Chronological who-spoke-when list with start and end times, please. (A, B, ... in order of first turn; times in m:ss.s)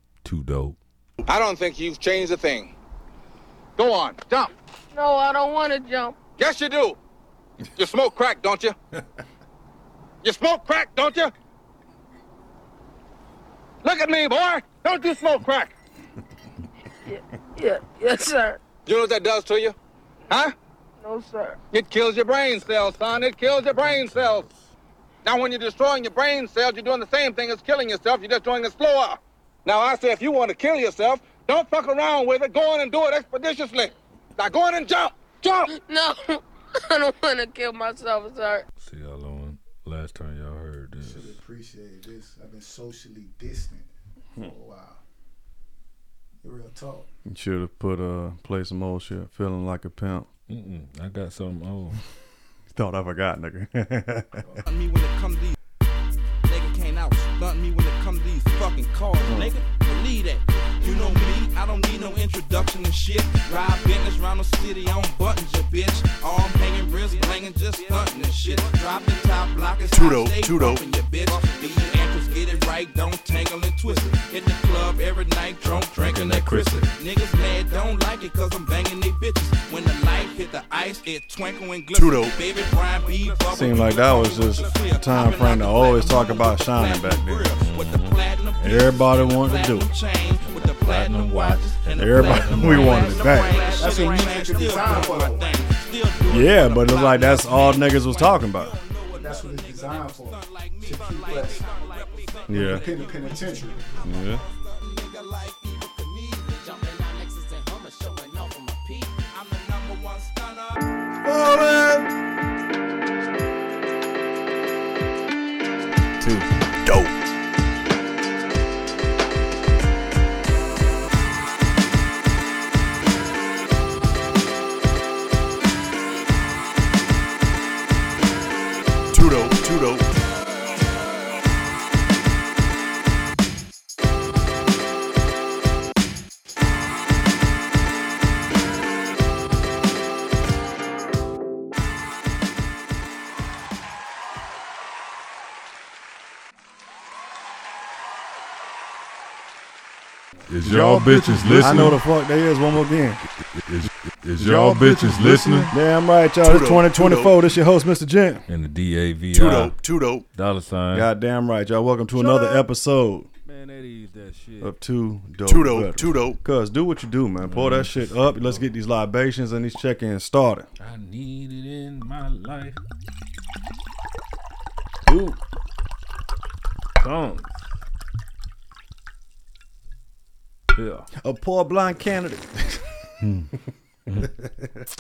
0:00.2-0:00.8 A
0:01.3-0:02.7 B
0:03.8-0:04.5 B
0:04.9-0:06.2 C
0:06.4-0:07.0 B
0:07.8-0:08.7 B
0:10.2-0:11.3 B
0:13.8-0:15.7 B
0:17.0-0:18.6 C
0:18.8-0:19.7 B
0:21.0-0:21.6 C
0:21.7-0:24.4 B
0:23.8-0:24.7 A
0:25.2-0:35.7 B
0:35.7-0:38.6 C
0:38.8-0:41.4 A
0:41.0-0:45.0 D
0:46.4-0:47.1 D
0:47.2-0:50.3 E
0:50.5-0:52.0 A
0:52.7-0:54.4 E
0:54.6-0:55.6 F
0:56.4-1:50.8 F
0:59.2-0:59.5 E
1:09.9-1:10.8 G
1:15.6-1:16.9 A
1:21.9-1:22.3 G
1:23.5-1:27.5 E
1:27.6-1:28.1 A
1:28.6-1:29.9 E
1:30.4-1:33.5 A
1:32.0-1:33.8 E
1:33.8-1:35.5 D
1:36.3-1:38.8 E
1:39.1-1:41.7 D
1:42.5-1:42.8 E
1:42.5-1:43.9 D
1:44.0-1:44.4 E
1:56.8-1:57.1 G
2:09.1-2:10.0 G
2:30.5-2:32.0 A
2:30.6-2:31.9 G
2:31.5-2:33.2 E
2:33.4-2:35.7 A
2:34.4-2:38.4 E
2:36.4-2:37.3 G
2:38.5-2:39.7 A
2:39.3-2:40.2 G
2:40.3-2:41.1 A
2:40.9-2:43.3 E
2:43.4-2:44.7 A
2:44.6-2:50.7 E
2:45.5-2:46.4 G
2:47.4-2:48.6 A
2:50.8-2:52.8 A
2:55.1-2:55.4 A
2:57.0-2:57.5 A
3:00.7-3:01.1 A
3:01.2-3:03.3 E
3:04.2-3:04.8 E